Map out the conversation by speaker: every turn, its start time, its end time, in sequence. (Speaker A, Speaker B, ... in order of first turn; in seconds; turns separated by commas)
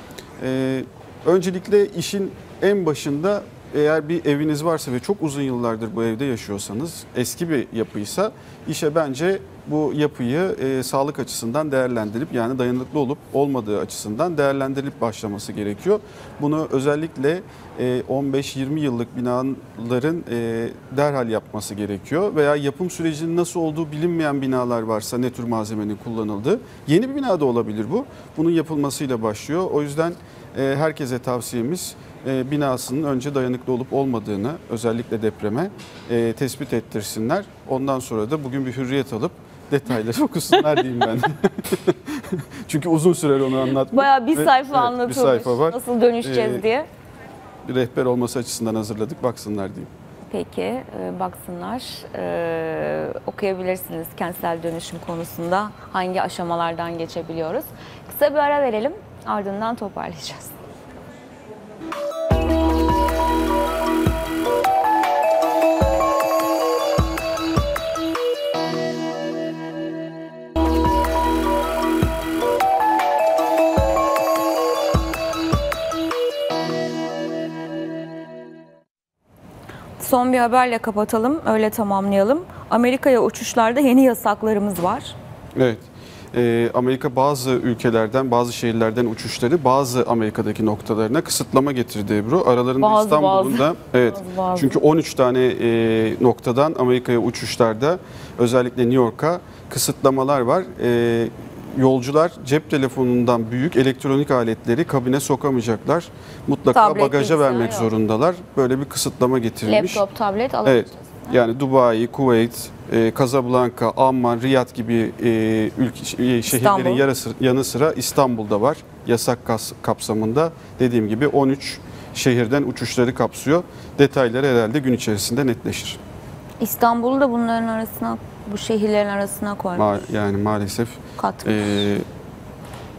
Speaker A: 0.4-46.6, Speaker B: 43.9-46.9, Speaker A: 47.6-49.9, Speaker B: 50.2-60.6, Speaker B: 80.0-85.2, Speaker A: 85.5-110.0, Speaker B: 92.8-94.8, Speaker B: 106.7-107.9, Speaker B: 109.7-111.4, Speaker A: 110.6-126.0, Speaker B: 116.5-117.0, Speaker B: 126.6-129.9, Speaker A: 129.8-132.1, Speaker B: 131.2-131.8